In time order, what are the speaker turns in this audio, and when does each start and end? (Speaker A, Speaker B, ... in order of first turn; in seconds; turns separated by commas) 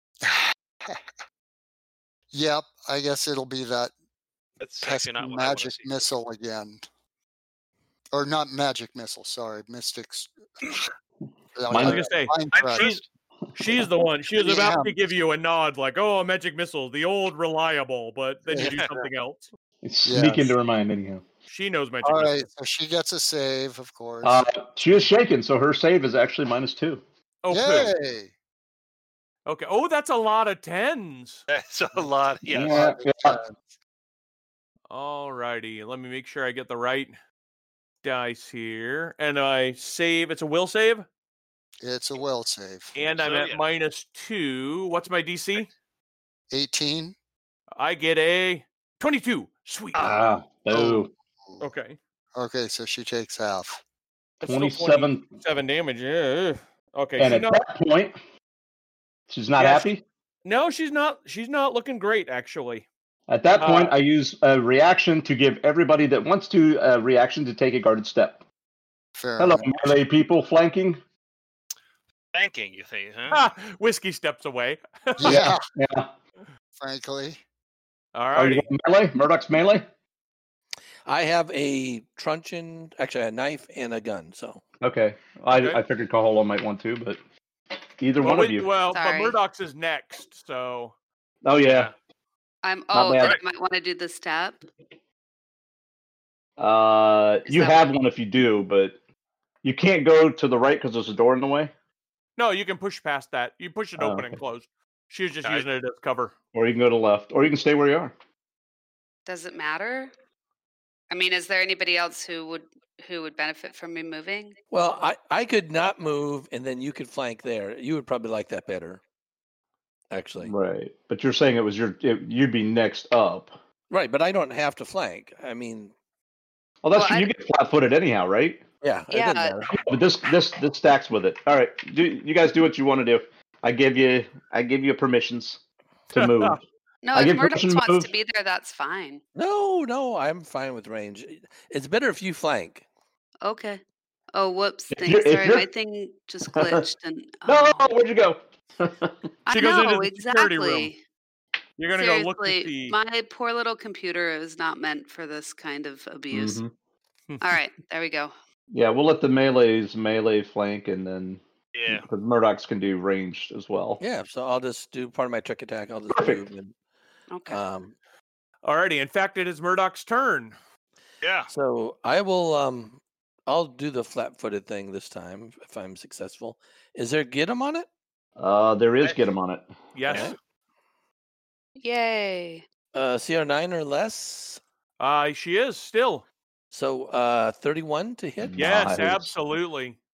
Speaker A: 0.2-1.0, Speaker A: 2.3-3.9, Speaker B: 4.6-6.0, Speaker A: 4.8-6.8, Speaker A: 8.1-10.3, Speaker A: 11.5-12.8, Speaker C: 11.7-12.0, Speaker D: 11.8-13.0, Speaker B: 12.5-13.1, Speaker D: 13.6-19.5, Speaker A: 14.4-14.9, Speaker A: 18.5-19.1, Speaker C: 19.8-21.2, Speaker A: 20.0-20.5, Speaker D: 21.5-22.4, Speaker A: 22.0-24.4, Speaker C: 24.2-27.0, Speaker D: 27.4-27.9, Speaker A: 27.5-28.3, Speaker D: 29.4-31.4, Speaker B: 31.5-32.9, Speaker C: 32.5-33.4, Speaker A: 32.7-33.5, Speaker D: 34.9-37.1, Speaker D: 38.0-41.0, Speaker A: 41.8-43.0, Speaker D: 43.0-45.7, Speaker B: 43.2-43.6, Speaker A: 46.5-47.1, Speaker D: 47.8-50.1, Speaker C: 50.0-51.1, Speaker D: 50.7-51.0, Speaker D: 51.6-52.0, Speaker A: 52.4-53.8, Speaker C: 54.4-55.2, Speaker D: 54.4-57.6, Speaker C: 57.2-58.2, Speaker C: 59.3-60.0, Speaker D: 59.6-59.9, Speaker D: 60.4-62.9, Speaker C: 63.3-68.4, Speaker D: 63.5-64.0, Speaker A: 69.2-69.7, Speaker C: 69.4-71.0, Speaker B: 72.3-73.5, Speaker D: 73.3-75.4, Speaker A: 75.2-75.6, Speaker C: 75.2-76.1, Speaker A: 76.8-77.4, Speaker D: 78.1-78.7, Speaker C: 78.3-79.8, Speaker E: 81.0-84.6, Speaker C: 84.8-87.2, Speaker D: 85.5-85.8, Speaker C: 88.0-88.7, Speaker D: 88.2-90.9, Speaker F: 88.9-89.3, Speaker C: 91.4-91.9, Speaker B: 91.6-91.9, Speaker F: 92.6-94.6, Speaker C: 92.9-93.4, Speaker C: 96.6-99.0, Speaker F: 97.5-97.8, Speaker C: 99.6-101.7, Speaker D: 102.4-106.3, Speaker C: 104.0-104.4, Speaker C: 106.5-108.1, Speaker F: 109.2-110.1, Speaker F: 111.1-114.5, Speaker E: 114.7-119.0, Speaker E: 120.1-120.5, Speaker C: 120.4-123.5, Speaker E: 123.9-125.9, Speaker C: 126.8-128.6, Speaker F: 126.9-127.3, Speaker E: 128.8-129.7, Speaker F: 129.1-129.6, Speaker C: 129.7-135.6, Speaker D: 136.1-136.6, Speaker C: 136.1-136.6, Speaker F: 137.0-139.2, Speaker C: 137.1-138.1, Speaker E: 139.3-142.8, Speaker F: 143.4-143.8, Speaker F: 144.3-147.9, Speaker C: 144.9-145.7, Speaker C: 146.5-146.8, Speaker C: 147.4-149.1, Speaker F: 149.4-151.0, Speaker D: 149.5-150.9, Speaker D: 151.8-153.0, Speaker F: 152.0-156.6, Speaker C: 156.3-156.7, Speaker F: 157.4-158.3, Speaker C: 158.7-164.0, Speaker B: 161.7-162.1, Speaker E: 164.0-166.7, Speaker C: 166.1-166.4, Speaker F: 167.3-167.6, Speaker E: 167.5-167.9, Speaker D: 168.6-170.5, Speaker B: 171.2-171.5, Speaker E: 171.5-177.8, Speaker C: 178.4-179.7, Speaker D: 179.9-180.3, Speaker E: 180.1-180.3, Speaker F: 181.8-182.6, Speaker E: 182.9-184.6, Speaker D: 185.0-186.2, Speaker E: 186.7-189.0, Speaker C: 188.4-189.3, Speaker D: 188.6-190.0